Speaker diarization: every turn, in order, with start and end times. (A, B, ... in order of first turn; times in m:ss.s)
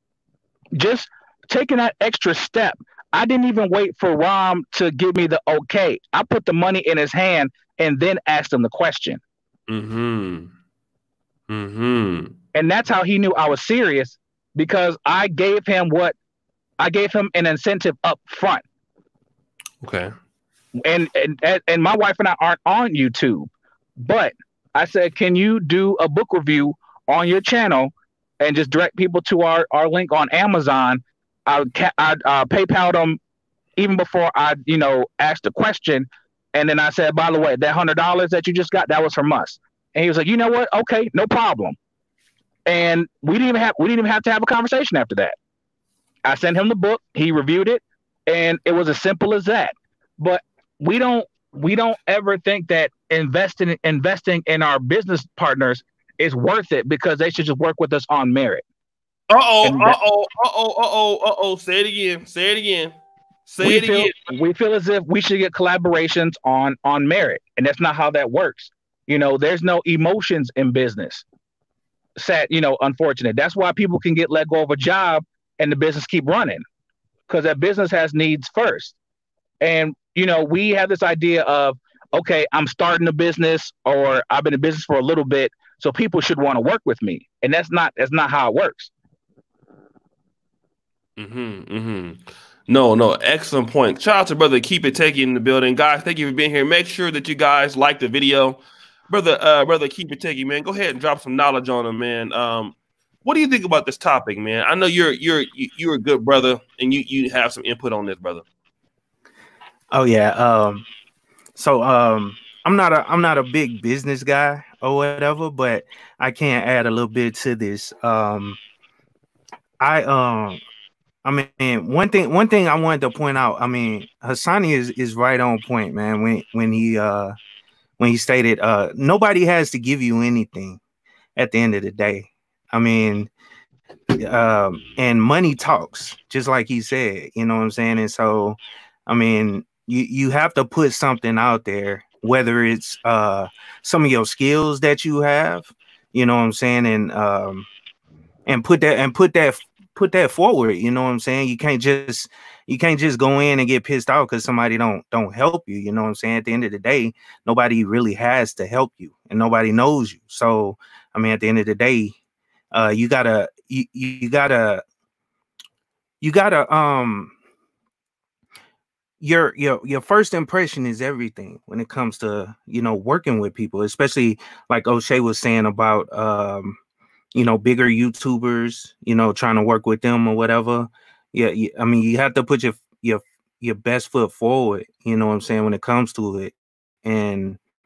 0:00.7-0:09.2 A
0:09.7-0:10.5 B
0:11.5-0:12.3 B
0:12.5-0:16.1 A
0:16.8-0:18.6 A
0:19.8-0:20.1 B
0:20.8-0:33.2 A
0:33.8-0:41.8 A
0:42.6-0:45.3 A
0:46.2-0:58.6 A
0:59.3-1:03.0 B
0:59.6-1:00.0 A
1:03.5-1:04.2 B
1:03.6-1:11.2 A
1:12.2-1:16.6 A
1:17.3-1:19.0 A
1:19.6-1:28.9 A
1:31.2-1:48.4 B
1:49.9-1:50.8 C
1:51.6-1:58.6 C
1:59.8-2:00.6 C
2:01.2-2:07.3 C
2:08.0-2:10.8 C
2:11.4-2:13.3 C
2:14.1-2:27.6 C
2:28.5-2:42.1 C
2:42.7-2:44.8 C
2:46.2-2:47.3 C
2:49.2-2:56.8 C
2:57.3-3:07.6 C